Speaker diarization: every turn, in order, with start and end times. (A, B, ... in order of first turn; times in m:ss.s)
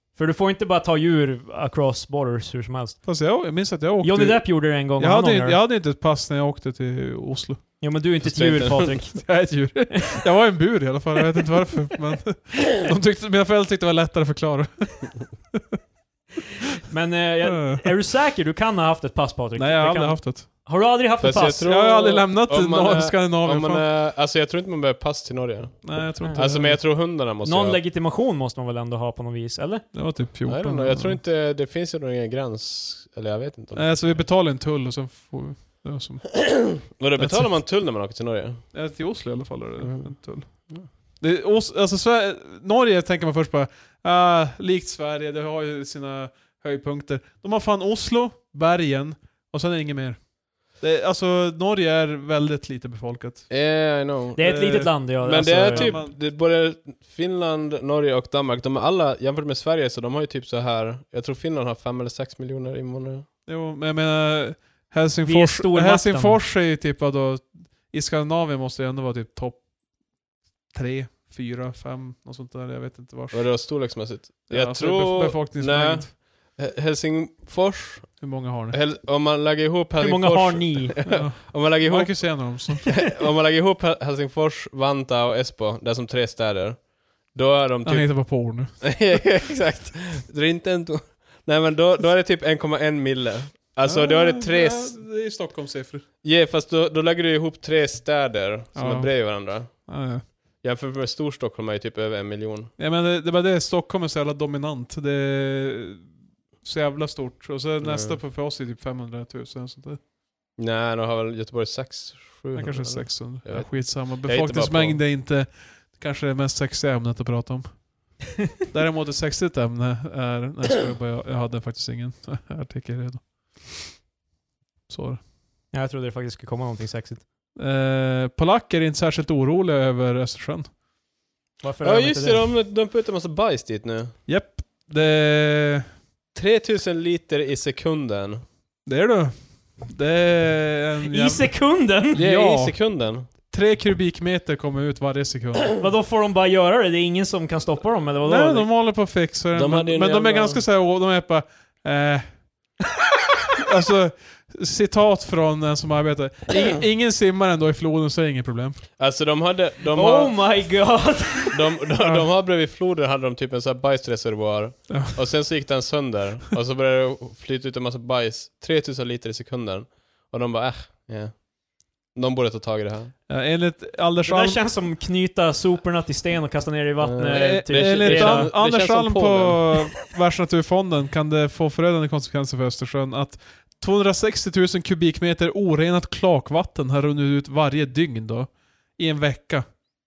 0:00.1-0:03.1 A
0:03.0-0:07.8 B
0:04.0-0:05.6 A
0:07.8-0:10.1 A
0:08.2-0:08.8 C
0:08.7-0:15.6 B
0:16.9-0:21.7 A
0:17.4-0:17.9 B
0:19.6-0:20.5 B
0:21.2-0:27.8 C
0:21.6-0:23.8 B
0:25.8-0:26.8 B
0:26.2-0:26.7 A
0:27.4-0:29.8 A
0:29.9-0:31.2 B
0:30.4-0:34.2 C
0:33.7-0:37.6 B
0:36.7-0:38.6 C
0:38.7-0:53.5 B
0:39.8-0:40.9 C
0:53.5-0:54.6 C
0:54.4-0:55.9 A
0:54.4-0:56.1 B
0:55.2-1:03.2 C
1:03.4-1:09.6 B
1:05.2-1:06.4 A
1:10.7-1:13.7 B
1:13.3-1:35.0 C
1:14.5-1:16.2 B
1:18.2-1:18.8 B
1:20.0-1:21.0 A
1:21.0-1:23.0 B
1:27.8-1:29.1 B
1:33.8-1:36.0 B
1:36.2-1:40.0 C
1:38.8-1:40.2 B
1:40.6-1:42.7 C
1:42.8-1:46.1 B
1:46.6-1:50.0 B
1:47.8-1:48.2 C
1:50.6-1:55.0 C
1:52.6-2:04.0 B
2:04.9-2:05.2 B
2:05.7-2:07.2 A
2:07.6-2:10.7 B
2:11.6-2:12.4 A
2:11.8-2:14.2 C
2:14.3-2:15.9 B
2:16.3-2:18.4 C
2:18.8-2:25.8 B
2:21.1-2:22.2 A
2:22.1-2:23.3 C
2:25.8-2:28.7 A
2:28.2-2:32.6 B
2:29.5-2:30.6 C
2:33.6-2:38.9 B
2:39.0-2:40.7 C
2:39.9-2:41.6 A
2:41.5-2:51.5 C
2:42.0-2:42.2 B
2:44.9-2:45.2 B
2:52.0-2:53.1 C
2:53.3-2:54.6 B
2:54.2-2:58.5 A
2:57.0-2:59.8 C
2:57.3-3:09.6 B